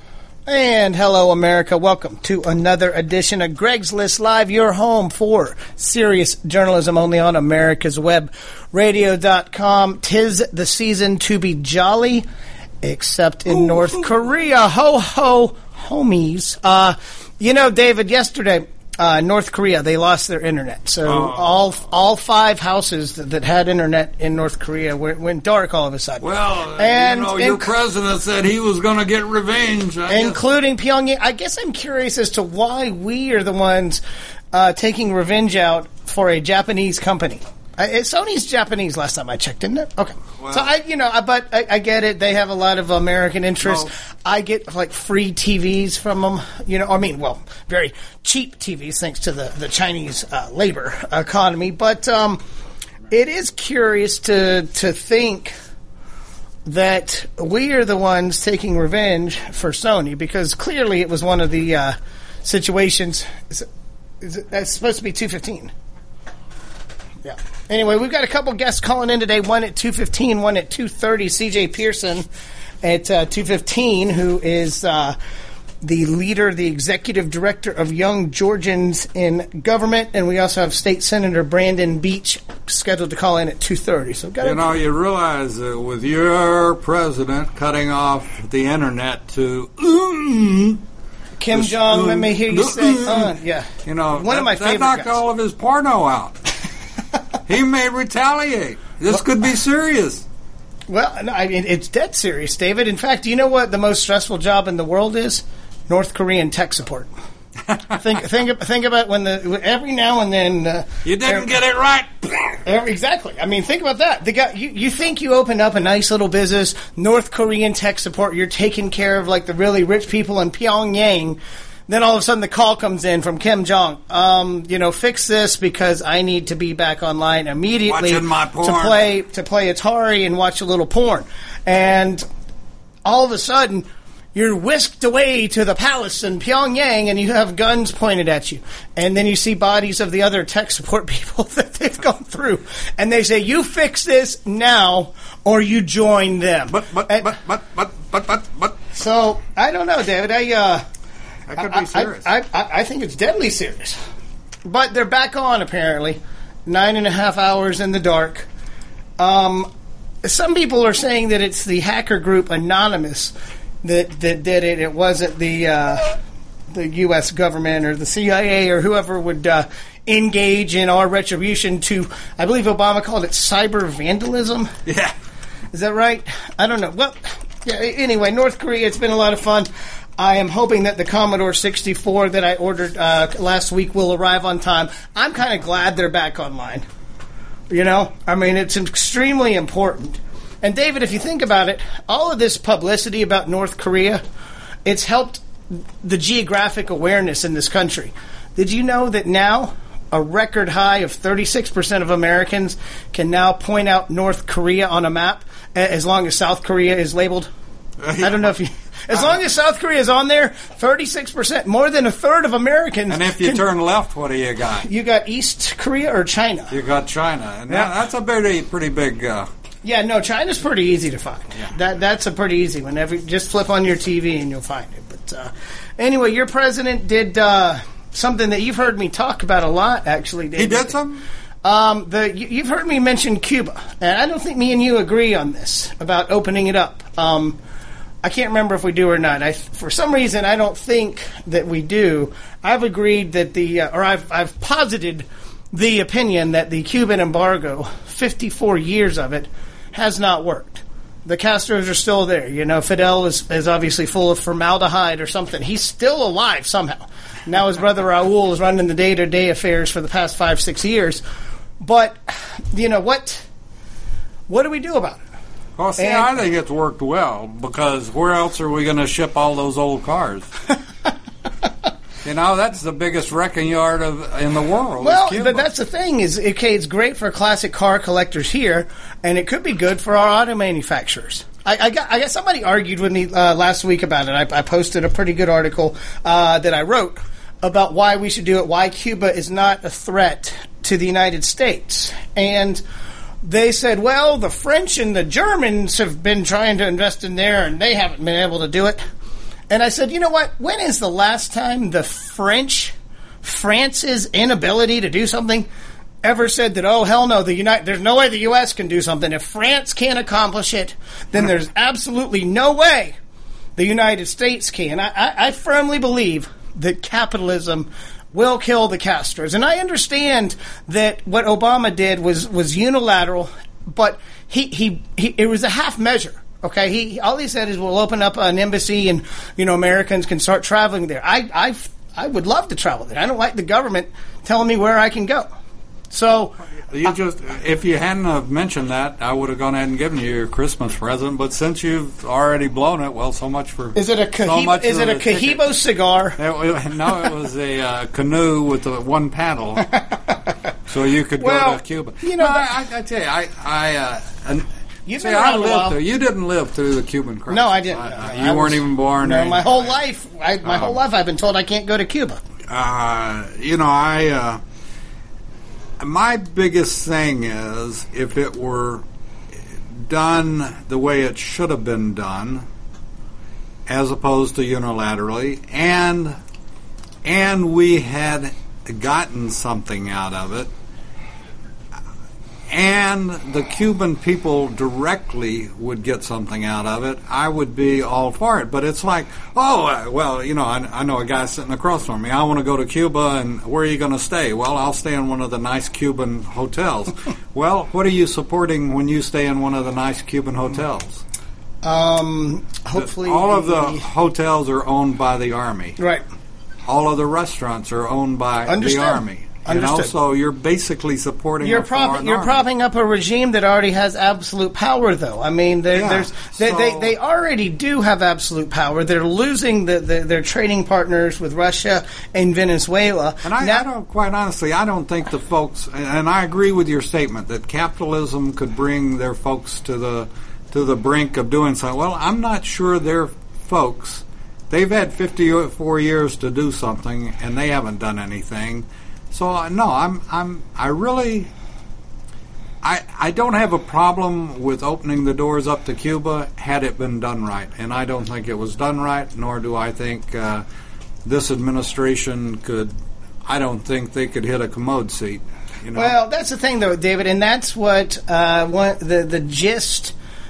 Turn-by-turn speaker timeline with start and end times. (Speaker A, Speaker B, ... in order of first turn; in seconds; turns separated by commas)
Speaker A: 0.5-12.2, Speaker A: 12.8-27.7, Speaker B: 21.1-21.8, Speaker B: 26.2-30.4, Speaker A: 30.1-34.0, Speaker A: 34.5-52.4, Speaker B: 40.4-40.7, Speaker B: 43.6-43.9, Speaker A: 53.1-55.5, Speaker A: 56.6-63.7, Speaker A: 64.2-65.7, Speaker A: 67.2-72.2, Speaker A: 72.8-75.2, Speaker A: 75.8-84.6, Speaker B: 84.4-90.8, Speaker A: 91.4-95.2, Speaker B: 91.5-93.3, Speaker B: 93.8-96.4, Speaker B: 97.5-100.2, Speaker A: 100.9-107.1, Speaker B: 107.7-108.0, Speaker A: 108.0-111.5, Speaker B: 111.0-112.3, Speaker A: 112.6-132.2, Speaker B: 127.8-129.1, Speaker A: 133.0-147.3, Speaker B: 146.7-148.8, Speaker A: 148.9-150.8, Speaker B: 151.5-152.3, Speaker A: 151.6-154.0, Speaker A: 154.7-158.5, Speaker A: 159.2-159.7, Speaker A: 160.2-166.1, Speaker A: 166.7-174.7, Speaker B: 174.9-175.1, Speaker A: 175.7-186.8, Speaker A: 187.7-194.2, Speaker A: 194.8-195.4, Speaker A: 196.0-207.5, Speaker B: 208.0-208.5, Speaker A: 208.2-213.6, Speaker B: 209.1-209.3, Speaker B: 213.1-214.9, Speaker A: 214.8-216.8, Speaker B: 216.7-219.5, Speaker A: 219.8-231.0, Speaker B: 230.5-231.2, Speaker A: 231.6-237.6, Speaker A: 238.2-261.2, Speaker A: 261.8-263.4, Speaker A: 264.5-265.2, Speaker B: 265.8-270.5, Speaker A: 266.0-266.3, Speaker B: 272.2-275.6, Speaker A: 275.0-292.8, Speaker A: 293.4-299.0, Speaker A: 299.7-305.7, Speaker A: 306.2-313.1, Speaker A: 313.8-335.5, Speaker A: 336.1-336.6, Speaker B: 336.9-345.6, Speaker A: 343.9-346.4, Speaker B: 346.4-349.9, Speaker B: 350.9-354.7, Speaker A: 351.4-352.7, Speaker A: 355.1-356.0, Speaker B: 355.2-359.9, Speaker A: 357.5-362.4, Speaker B: 360.6-361.0, Speaker B: 362.7-364.6, Speaker B: 366.0-372.6, Speaker B: 373.9-376.4, Speaker B: 377.2-380.7, Speaker B: 382.7-401.2, Speaker A: 401.8-404.1, Speaker B: 402.9-406.0, Speaker B: 406.9-412.6, Speaker A: 408.7-410.1, Speaker A: 411.6-423.8, Speaker B: 415.9-417.1, Speaker B: 423.4-441.5, Speaker B: 442.8-450.6, Speaker B: 451.2-452.9, Speaker B: 453.4-456.1, Speaker A: 455.9-460.1